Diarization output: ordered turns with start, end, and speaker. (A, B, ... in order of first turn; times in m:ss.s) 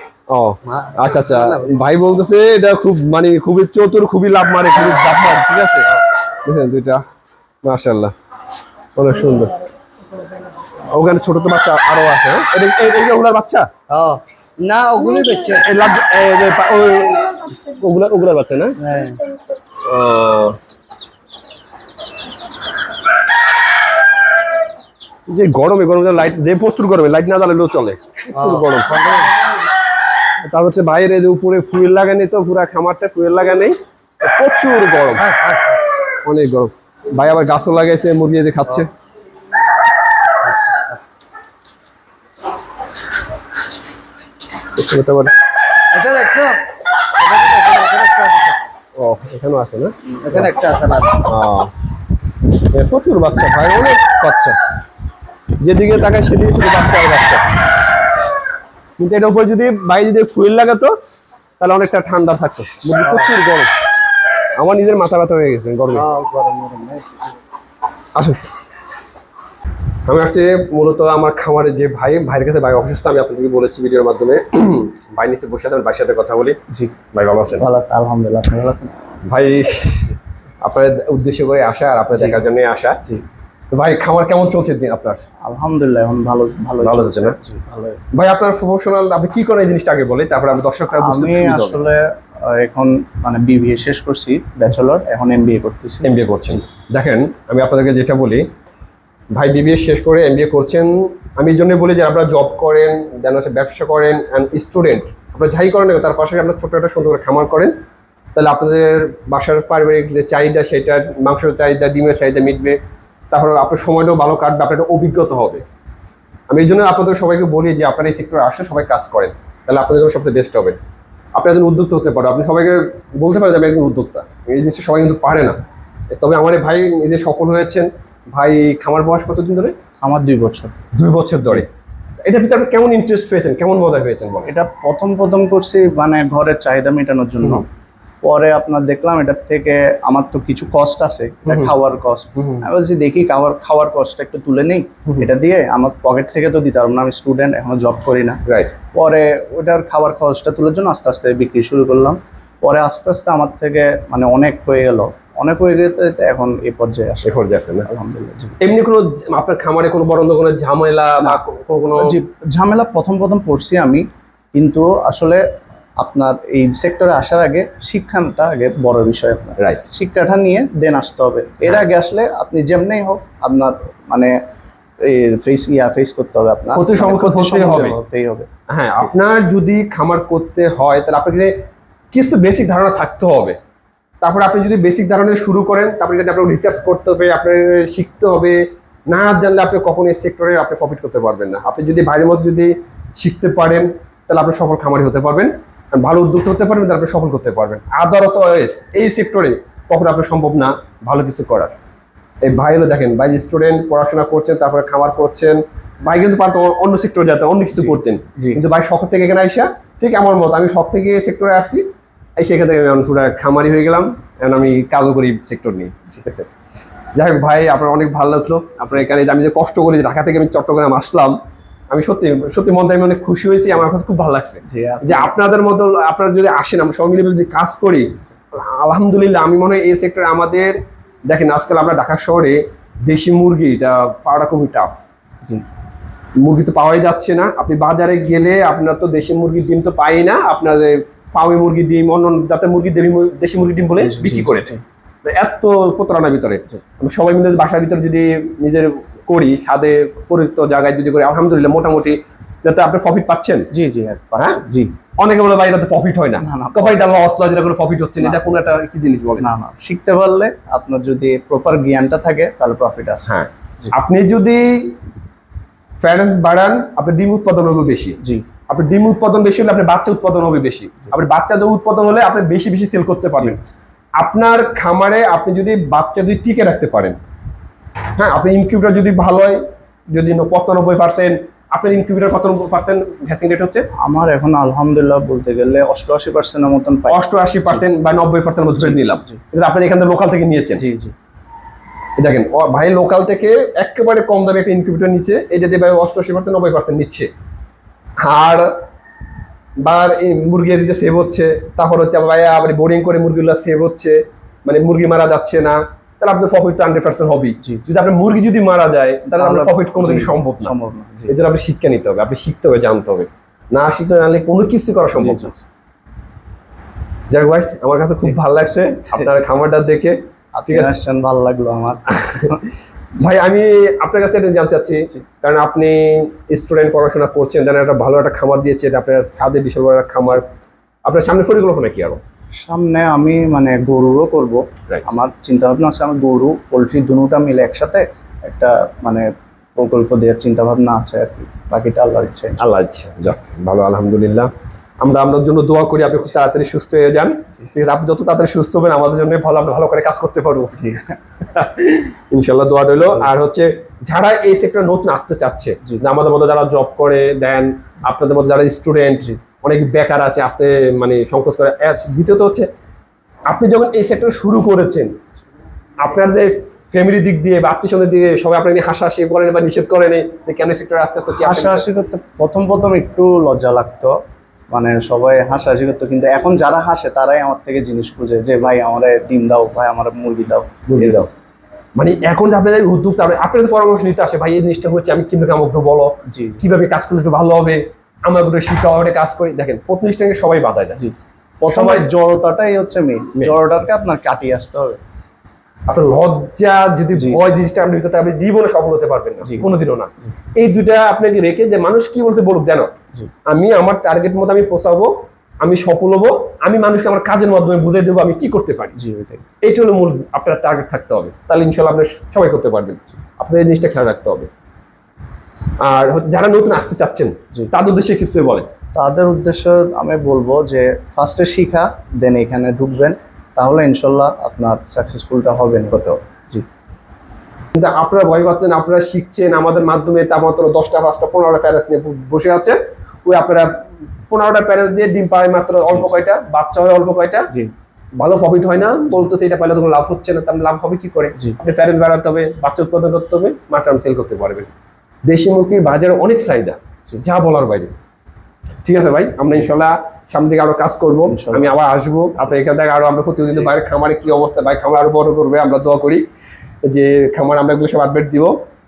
0:00.3-0:05.9 A
0:00.6-0:01.8 B
0:04.8-0:05.2 B
0:06.4-0:07.0 A
0:07.6-0:08.1 A
0:09.0-0:09.5 A
0:10.9-0:13.7 A
0:13.9-0:15.6 B
0:15.6-0:18.8 A
0:18.8-0:19.2 B
0:19.8-0:20.6 A
0:25.3-0:28.9 A
0:28.3-0:29.3 B
0:30.4-0:35.3 A
0:35.1-0:35.8 B
0:36.2-0:38.9 A
0:40.4-0:41.0 B
0:44.8-0:45.3 A
0:45.9-0:46.6 B
0:47.2-0:48.6 B
0:49.0-0:50.5 A
0:50.2-0:51.3 B
0:51.2-0:51.7 A
0:52.6-0:54.6 A
0:55.6-0:57.5 A
0:59.0-1:00.9 A
1:01.6-1:03.7 A
1:04.6-1:06.1 A
1:05.9-1:07.3 B
1:10.1-1:16.6 A
1:16.7-1:17.0 C
1:17.1-1:17.6 A
1:17.6-1:19.0 C
1:19.2-1:23.0 A
1:22.1-1:22.4 C
1:23.7-1:25.2 A
1:25.4-1:28.0 C
1:26.8-1:27.4 A
1:28.1-1:31.8 A
1:31.0-1:36.1 C
1:36.0-1:38.4 A
1:39.3-1:47.7 A
1:48.3-1:52.8 A
1:53.3-1:55.6 A
1:56.5-2:00.8 A
2:01.3-2:05.6 A
2:06.1-2:09.7 A
2:10.0-2:10.8 C
2:10.9-2:11.7 A
2:12.2-2:14.5 A
2:14.4-2:17.7 C
2:18.2-2:28.4 C
2:21.4-2:21.7 A
2:22.4-2:22.7 A
2:28.4-2:28.8 A
2:28.9-2:38.6 C
2:37.2-2:37.9 A
2:38.6-2:42.1 A
2:41.2-2:45.4 C
2:46.0-2:54.3 C
2:49.6-2:49.8 A
2:55.0-2:58.5 C
2:56.7-2:58.0 A
2:58.7-3:01.5 A
3:02.1-3:03.6 A
3:04.2-3:08.6 A
3:09.1-3:21.7 A
3:22.4-3:31.8 A
3:27.8-3:28.6 C
3:32.4-3:36.5 A
3:37.2-3:41.4 A
3:41.9-3:50.8 A
3:44.6-3:45.3 C
3:51.3-3:54.9 A
3:56.4-4:04.7 A
4:04.0-4:04.8 C
4:05.2-4:13.7 A
4:13.7-4:15.0 C
4:15.2-4:19.5 A
4:16.4-4:17.1 C
4:19.4-4:23.3 C
4:23.2-4:25.0 A
4:26.0-4:28.2 A
4:28.2-4:28.5 C
4:28.7-4:33.6 A
4:34.2-4:37.2 A
4:38.2-4:43.8 A
4:44.0-4:47.8 C
4:47.1-4:50.8 A
4:48.8-4:49.4 C
4:50.8-4:51.1 C
4:52.2-4:57.3 A
4:58.2-4:58.7 A
4:59.8-5:10.7 A
5:09.3-5:11.3 C
5:11.3-5:15.5 A
5:15.1-5:15.6 C
5:17.3-5:20.2 A
5:20.6-5:22.6 C
5:22.1-5:22.6 A
5:23.2-5:30.4 A
5:31.1-5:32.2 A
5:32.6-5:42.6 C
5:42.6-6:02.7 A
5:50.8-5:51.2 C
6:03.5-6:05.1 A
6:06.0-6:11.8 A
6:11.3-6:14.1 C
6:14.7-6:21.2 C
6:20.9-6:21.3 A
6:22.0-6:31.0 A
6:26.3-6:26.6 C
6:31.0-6:35.0 C
6:31.7-6:32.1 A
6:35.9-6:42.9 A
6:43.5-6:49.0 A
6:49.0-6:49.5 C
6:49.6-6:54.5 A
6:55.8-6:58.7 A
6:58.9-7:06.6 C
7:05.9-7:06.2 A
7:07.7-7:17.5 A
7:18.2-7:24.7 A
7:25.3-7:27.9 A
7:28.8-7:36.2 A
7:31.3-7:31.8 C
7:36.8-7:38.6 A